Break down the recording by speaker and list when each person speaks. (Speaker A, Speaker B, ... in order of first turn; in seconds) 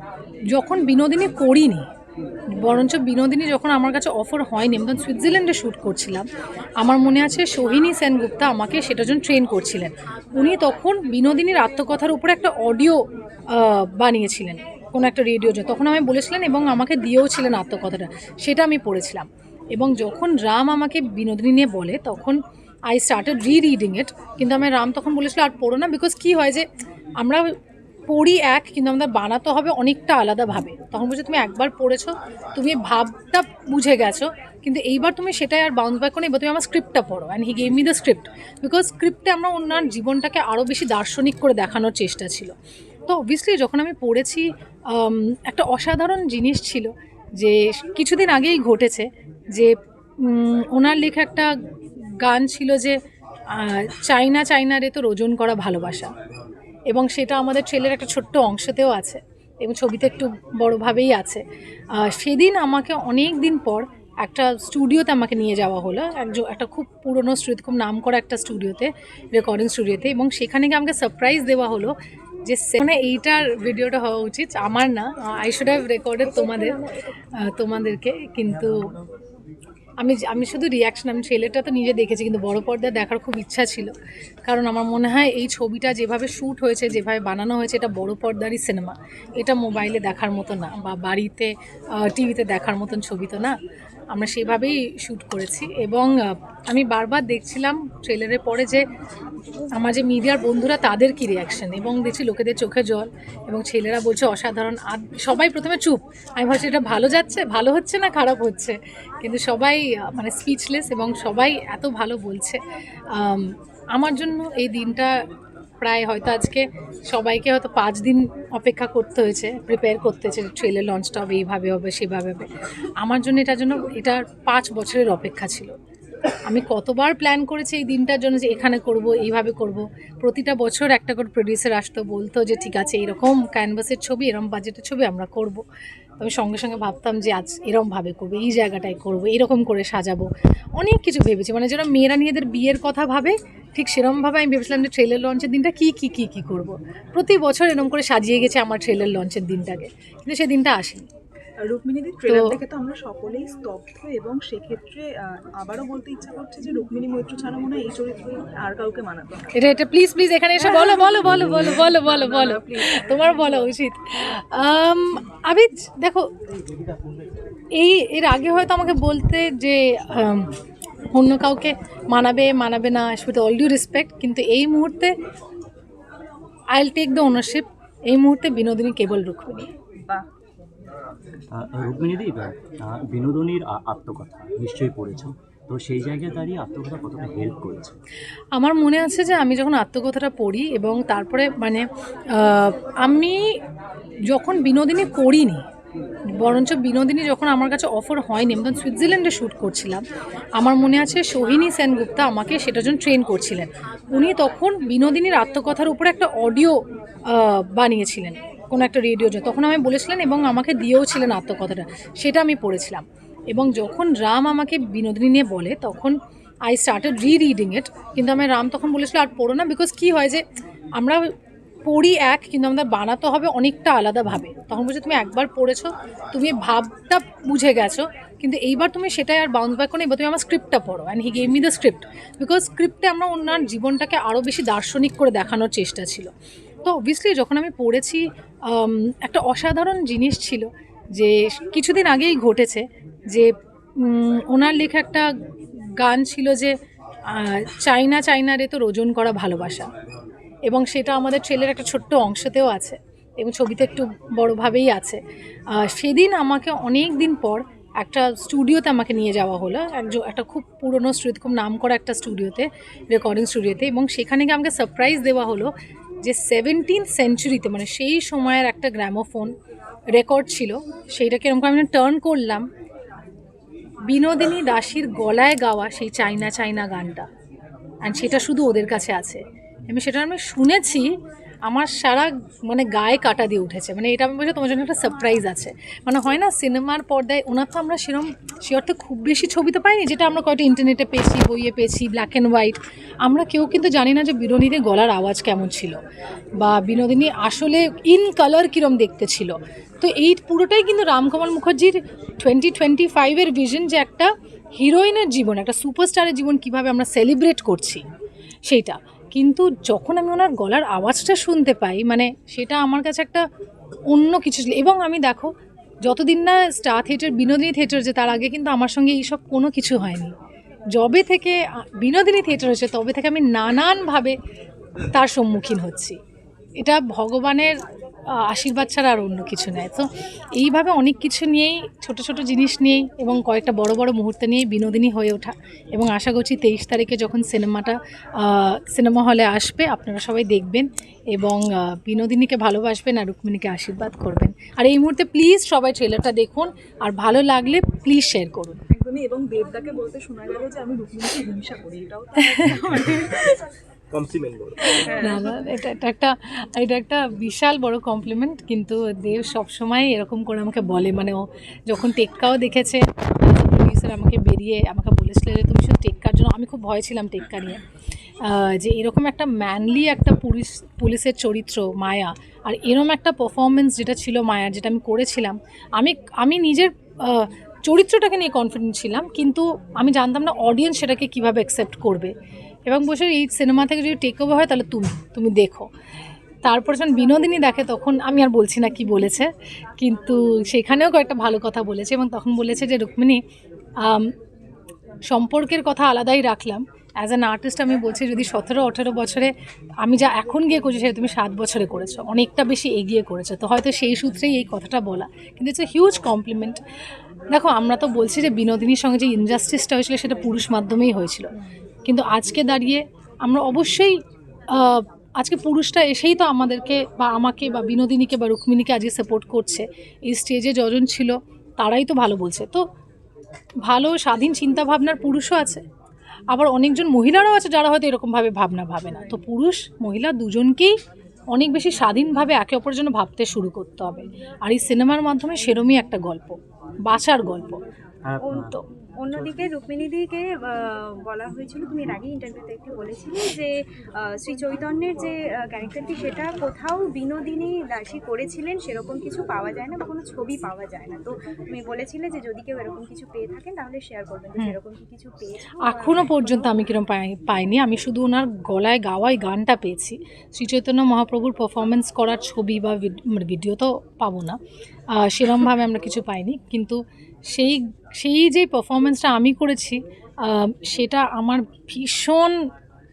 Speaker A: 0.5-1.9, 2.5-6.2, 6.8-26.6, 27.2-27.5, 28.1-42.5, 43.1-51.5, 52.2-53.0, 53.5-56.1, 56.9-61.4, 61.9-71.9, 72.5-76.8, 77.3-78.9, 80.0-83.9, 84.5-93.6, 94.1-98.8, 99.7-112.6, 113.1-115.2, 115.8-122.5, 123.0-125.7, 126.5-135.6, 136.2-151.1, 152.3-152.5, 159.5-166.3, 167.7-170.6, 171.1-175.1, 176.7-179.7, 188.5-193.6, 194.3-195.7, 196.4-200.0, 200.6-206.8, 207.3-220.4, 220.9-221.3, 221.8-236.3, 236.8-245.3, 246.0-246.7, 247.3-249.9, 250.7-255.2, 255.7-265.7, 266.2-269.5, 270.1-272.7, 274.1-277.3, 278.0-296.0, 296.6-308.0, 308.7-313.4, 314.1-315.5, 316.0-320.3, 320.9-324.4, 325.1-326.2, 326.8-327.8, 328.3-348.8, 354.8-367.8, 368.4-382.3, 382.9-385.9, 386.6-393.4, 394.0-394.3, 395.3-399.5, 400.0-406.8, 407.5-411.5, 412.1-414.2, 414.7-422.9, 423.8-425.8, 426.5-430.9, 431.5-437.8, 455.8-464.6, 465.1-467.0, 467.5-472.6
Speaker B: 76.3-77.0, 354.9-355.5, 438.4-443.7, 444.3-456.8
Speaker C: 151.6-159.5, 160.6-163.7, 348.9-353.6
Speaker D: 181.5-187.9, 354.1-354.9, 438.3-438.8, 439.3-439.7